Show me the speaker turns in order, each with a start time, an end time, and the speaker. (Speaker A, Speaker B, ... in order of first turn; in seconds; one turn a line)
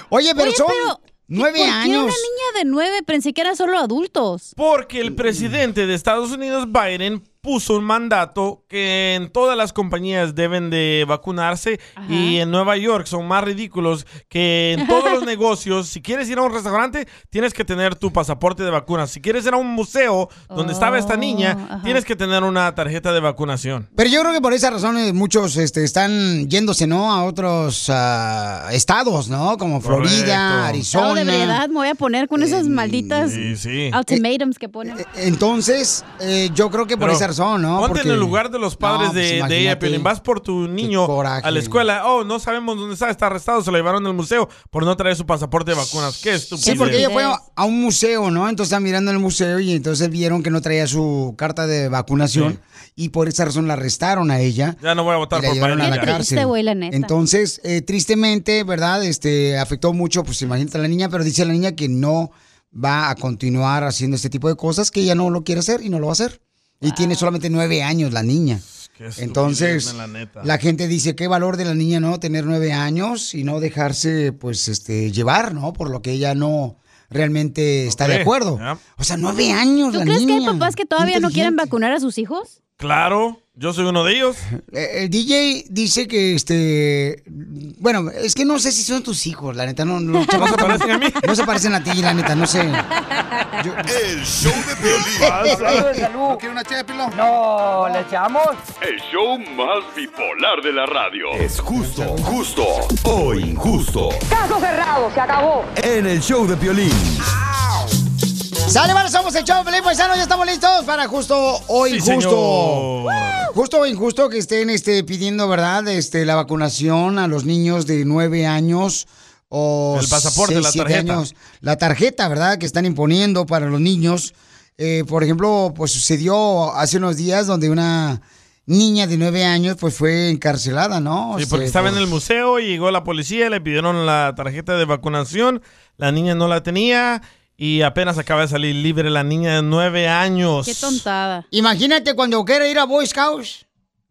Speaker A: 0.1-2.3
Speaker B: 0.4-4.5
Speaker C: 4.6-23.9
Speaker A: 5.1-5.5
Speaker B: 12.0-12.4
Speaker B: 14.8-15.2
Speaker B: 20.5-22.0
Speaker A: 23.9-31.6
Speaker C: 29.8-30.8
Speaker B: 30.9-35.0
Speaker A: 32.3-33.4
Speaker C: 33.2-34.0
Speaker A: 34.8-40.1
Speaker C: 37.0-37.2
Speaker C: 37.8-47.1
Speaker A: 40.8-41.8
Speaker B: 46.6-47.4
Speaker A: 46.6-54.8
Speaker C: 52.3-52.6
Speaker C: 54.8-56.3
Speaker A: 55.3-68.6
Speaker B: 55.8-57.1
Speaker B: 66.8-67.2
Speaker C: 68.8-70.5
Speaker A: 69.2-81.7
Speaker C: 77.9-78.8
Speaker B: 79.9-82.5
Speaker C: 82.8-84.5
Speaker A: 84.5-92.8
Speaker B: 90.2-90.6
Speaker C: 90.3-91.2
Speaker A: 93.6-93.8
Speaker D: 93.8-95.5
Speaker A: 95.0-96.1
Speaker C: 95.2-95.8
Speaker E: 95.5-96.4
Speaker E: 97.1-98.6
Speaker F: 98.8-101.4
Speaker D: 101.3-104.2
Speaker D: 105.8-107.2
Speaker A: 108.7-112.9
Speaker C: 111.8-113.5
Speaker A: 113.5-132.0
Speaker C: 119.9-121.2
Speaker C: 131.3-141.0
Speaker B: 140.6-141.4
Speaker A: 141.5-143.6